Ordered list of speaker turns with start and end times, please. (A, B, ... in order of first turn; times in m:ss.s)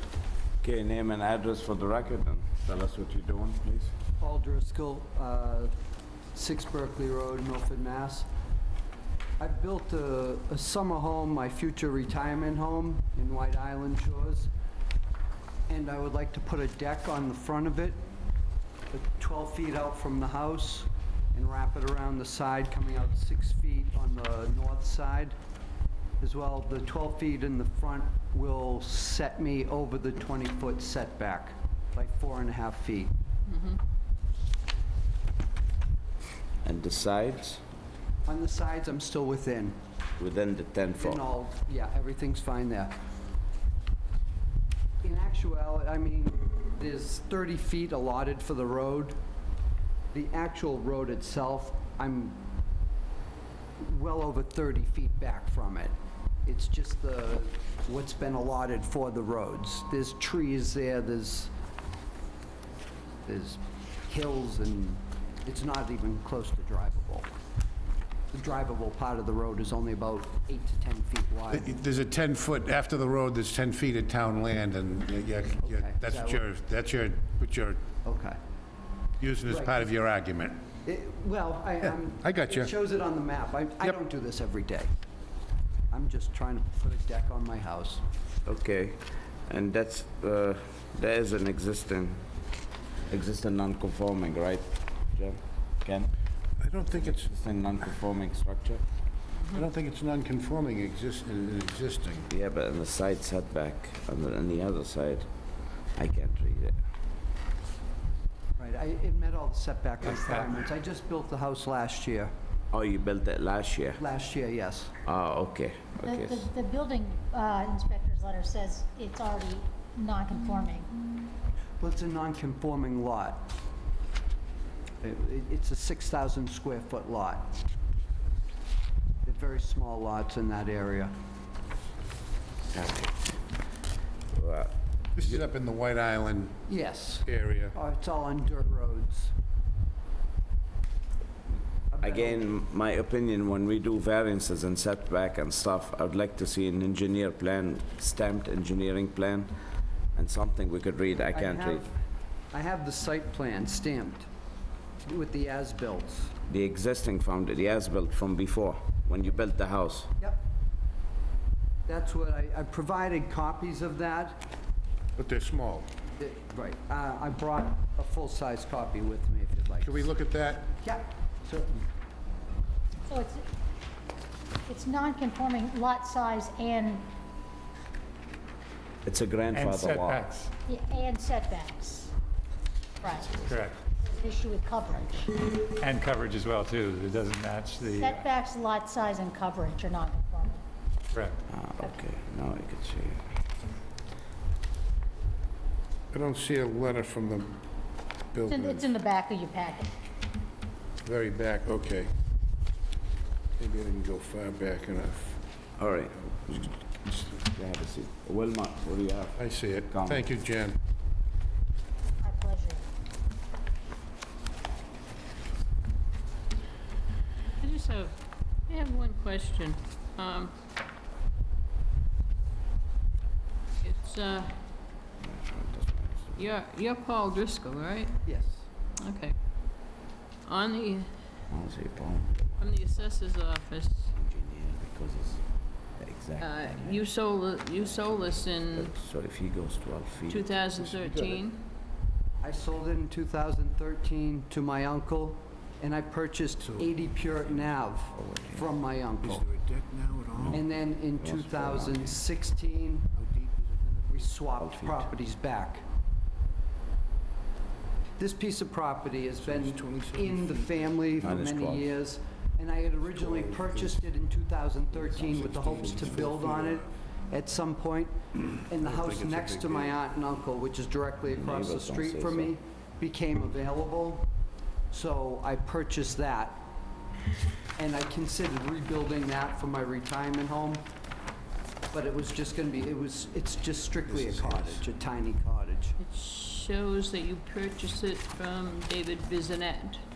0:00.6-0:03.9 A
0:04.2-0:05.7 B
0:06.3-0:08.3 B
0:09.4-0:14.5 B
0:15.7-0:18.0 B
0:18.9-0:25.3 B
0:26.2-0:33.1 B
0:33.5-0:33.8 C
0:36.6-0:37.6 A
0:38.2-0:39.8 B
0:40.2-0:41.2 A
0:41.0-0:43.0 B
0:45.0-0:49.2 B
0:50.1-0:52.4 B
0:53.8-0:55.9 B
0:56.4-1:01.5 B
1:03.2-1:07.3 B
1:08.3-1:11.7 B
1:11.5-1:17.8 D
1:15.6-1:16.4 B
1:18.0-1:18.4 B
1:19.2-1:20.6 D
1:19.5-1:19.8 B
1:20.8-1:24.9 B
1:22.2-1:22.7 D
1:25.9-1:28.0 B
1:28.4-1:32.2 A
1:33.1-1:36.1 A
1:36.6-1:37.3 D
1:37.0-1:38.8 A
1:39.5-1:42.3 D
1:42.3-1:45.3 A
1:45.9-1:46.8 A
1:48.6-1:52.3 B
1:52.7-1:54.0 A
1:54.0-1:54.9 B
1:55.0-1:56.5 A
1:56.0-2:00.9 E
2:01.8-2:03.5 B
2:05.0-2:07.6 B
2:09.2-2:11.1 B
2:12.7-2:13.3 A
2:14.3-2:14.7 A
2:15.2-2:16.6 D
2:16.7-2:19.3 B
2:17.2-2:17.8 D
2:21.9-2:22.4 B
2:22.0-2:29.5 A
2:30.1-2:31.9 A
2:31.3-2:31.9 B
2:32.5-2:34.3 B
2:35.0-2:36.4 B
2:36.5-2:40.1 A
2:41.9-2:44.4 B
2:45.2-2:45.9 D
2:46.2-2:50.1 B
2:49.8-2:50.7 D
2:50.8-2:51.8 B
2:53.1-2:53.4 E
2:54.6-2:57.0 E
2:59.0-3:00.2 A
2:59.5-3:00.5 F
3:00.6-3:02.1 E
3:03.0-3:03.4 E
3:03.1-3:03.5 A
3:03.4-3:03.8 F
3:04.0-3:05.4 E
3:05.4-3:08.2 F
3:07.8-3:10.6 E
3:11.1-3:11.4 F
3:11.5-3:13.2 A
3:16.1-3:17.6 D
3:18.3-3:18.9 D
3:18.4-3:19.9 E
3:21.0-3:22.1 D
3:23.6-3:25.3 D
3:25.8-3:26.7 A
3:27.4-3:29.4 A
3:29.4-3:30.8 D
3:29.9-3:30.3 A
3:32.2-3:32.8 E
3:37.6-3:38.2 C
3:38.7-3:40.5 C
3:43.8-3:44.6 C
3:45.2-3:46.5 A
3:46.4-3:48.1 C
3:48.2-3:48.7 B
3:49.0-3:49.3 C
3:50.4-3:51.1 C
3:51.5-3:53.0 A
3:52.6-3:54.1 C
3:54.1-3:55.4 A
3:56.0-3:57.0 A
3:56.4-3:58.9 C
3:57.7-4:00.4 A
4:00.3-4:01.6 C
4:00.8-4:01.4 D
4:02.4-4:09.4 B
4:06.6-4:07.7 D
4:08.1-4:08.7 A
4:09.2-4:10.7 D
4:10.4-4:10.6 A
4:10.5-4:13.1 B
4:11.2-4:12.2 A
4:13.1-4:14.3 D
4:14.1-4:15.8 B
4:14.6-4:15.1 A
4:18.2-4:34.3 B
4:19.4-4:21.3 D
4:21.2-4:21.9 A
4:23.0-4:24.0 D
4:24.9-4:26.9 D
4:28.8-4:30.0 D
4:31.3-4:32.5 A
4:34.9-4:36.6 B
4:37.8-4:40.8 B
4:41.9-4:46.0 B
4:44.1-4:44.8 D
4:46.0-4:50.0 C